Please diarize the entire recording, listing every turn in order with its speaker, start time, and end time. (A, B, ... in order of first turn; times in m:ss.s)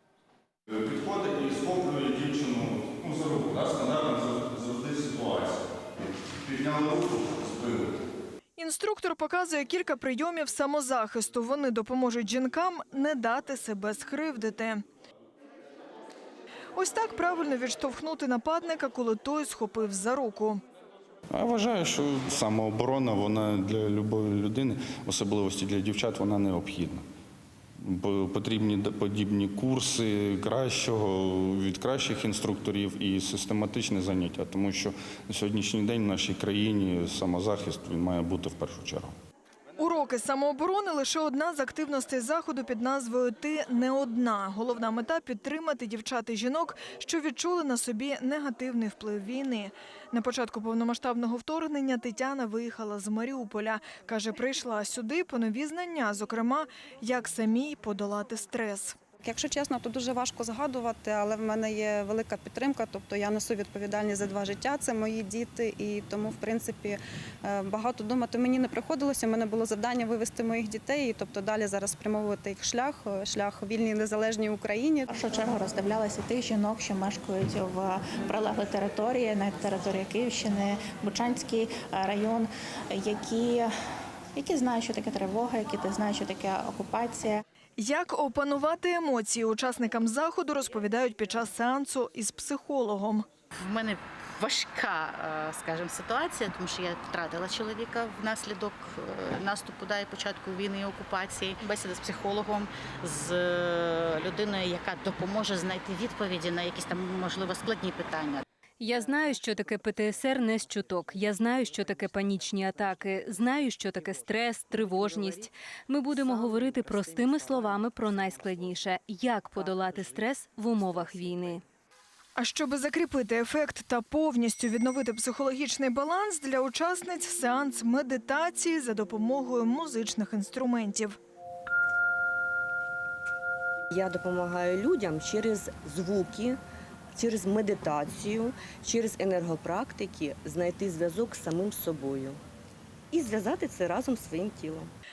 0:00.7-0:08.0 A
0:08.6-0:14.8 B
0:16.8-0:20.6 B
0:21.3-0:27.0 A
0:27.8-0:39.1 A
0:39.8-0:59.0 B
0:59.2-1:15.1 C
1:15.1-1:23.7 D
1:24.4-1:27.4 D
1:27.8-1:33.2 B
1:33.6-1:48.4 E
1:48.8-2:01.6 F
2:02.4-2:11.2 B
2:13.9-2:16.6 G
2:17.2-2:22.4 G
2:23.1-2:24.9 G